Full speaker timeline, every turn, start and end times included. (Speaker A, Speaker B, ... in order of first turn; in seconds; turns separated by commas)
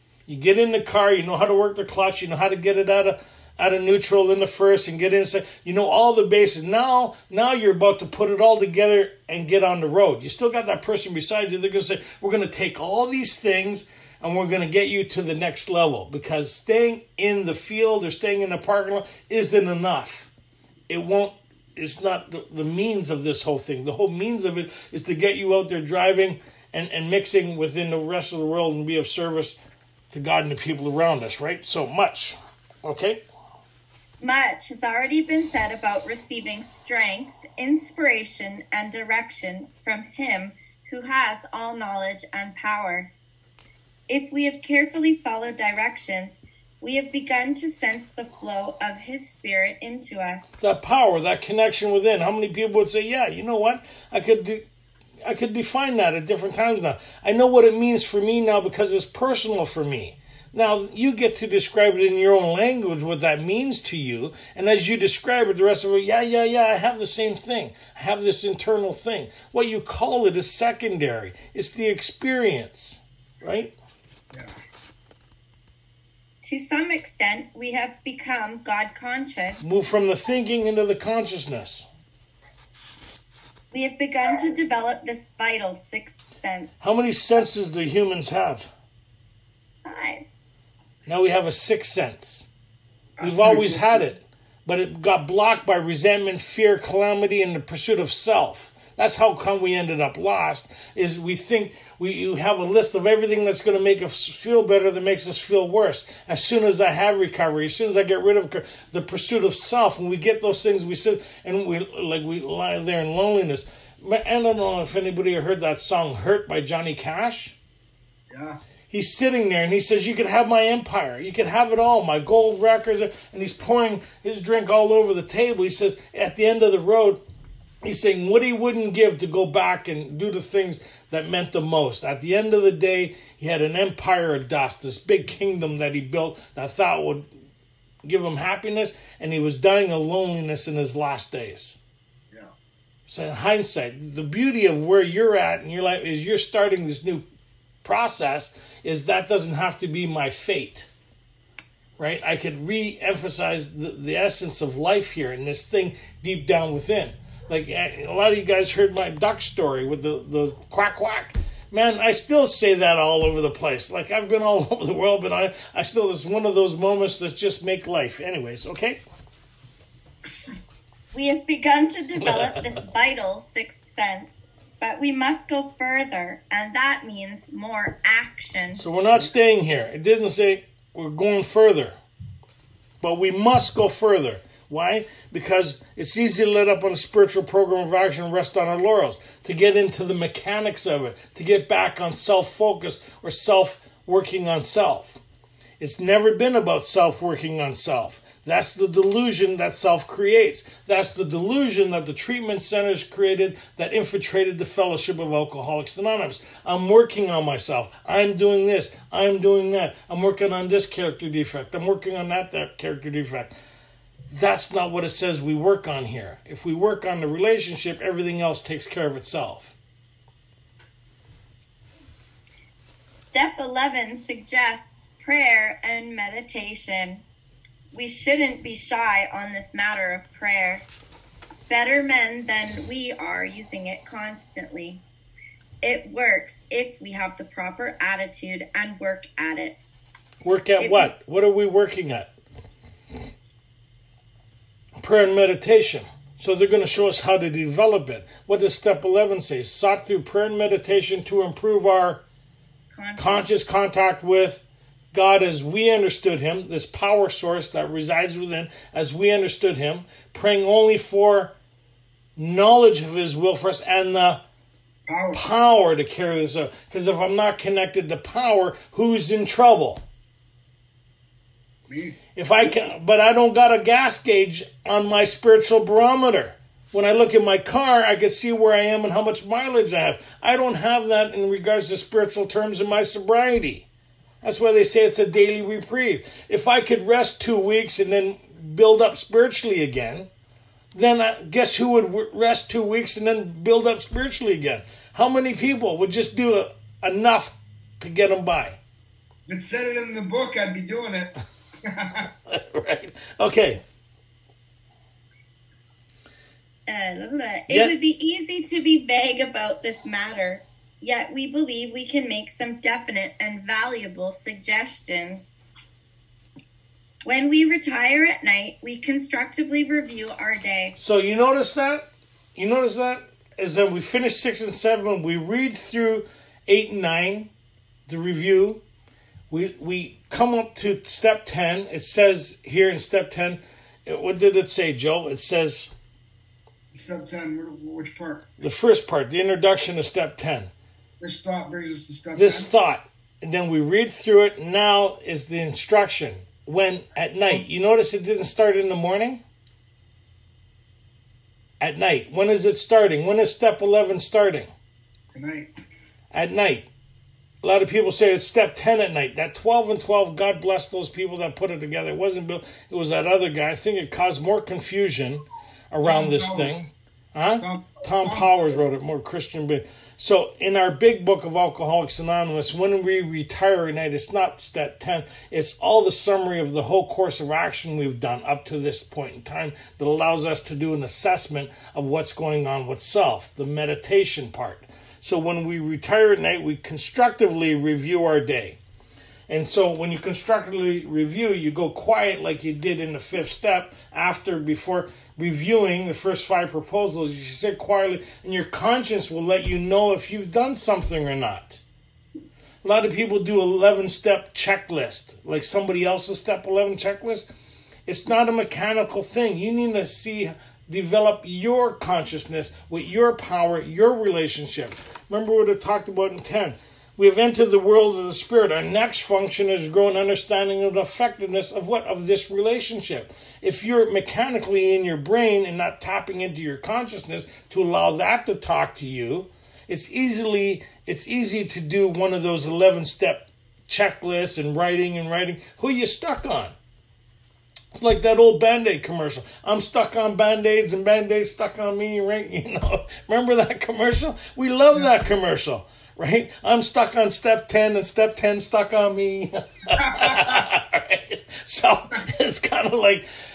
Speaker A: 0.3-20.3, Speaker A: 20.9-29.6, Speaker A: 30.1-33.2, Speaker B: 34.2-43.1, Speaker B: 44.1-50.4, Speaker A: 50.6-54.6, Speaker A: 55.2-73.7, Speaker B: 76.4-79.6, Speaker A: 79.6-81.9, Speaker B: 83.7-86.8, Speaker A: 86.8-88.7, Speaker B: 89.8-90.2, Speaker A: 91.1-92.5, Speaker C: 93.2-94.1, Speaker A: 93.2-117.6, Speaker C: 118.3-118.6, Speaker A: 118.9-127.2, Speaker A: 127.8-137.3, Speaker A: 138.0-141.8, Speaker A: 143.1-147.2, Speaker A: 147.8-150.9, Speaker A: 152.0-169.0, Speaker B: 171.1-178.8, Speaker A: 172.2-172.7, Speaker A: 178.8-182.0, Speaker A: 183.0-195.2, Speaker A: 195.8-213.5, Speaker A: 214.3-219.8, Speaker B: 223.1-227.2, Speaker B: 227.9-230.9, Speaker B: 231.7-235.0, Speaker B: 235.8-239.9, Speaker A: 240.4-242.3, Speaker B: 240.8-241.1, Speaker A: 245.0-252.2, Speaker B: 252.9-253.5, Speaker A: 253.2-261.5, Speaker A: 262.4-264.4, Speaker C: 265.1-265.4, Speaker A: 265.3-270.0, Speaker C: 271.9-272.2, Speaker A: 272.4-283.9, Speaker A: 284.4-290.3, Speaker A: 290.9-298.8, Speaker C: 299.5-302.3, Speaker A: 302.5-303.8, Speaker B: 306.9-315.5, Speaker A: 307.7-307.9, Speaker B: 317.2-321.0, Speaker A: 321.0-322.0, Speaker A: 322.6-327.5, Speaker A: 328.1-328.8, Speaker A: 329.5-335.9, Speaker C: 336.9-338.5, Speaker A: 338.6-340.7, Speaker C: 341.2-342.7, Speaker A: 342.4-349.4, Speaker A: 351.8-354.7, Speaker C: 355.3-355.7, Speaker A: 356.3-356.9, Speaker A: 357.6-388.8, Speaker C: 366.0-366.7, Speaker C: 367.6-368.8, Speaker A: 389.5-401.8, Speaker A: 402.8-407.5, Speaker A: 408.1-436.8, Speaker A: 437.9-453.3, Speaker C: 450.0-450.5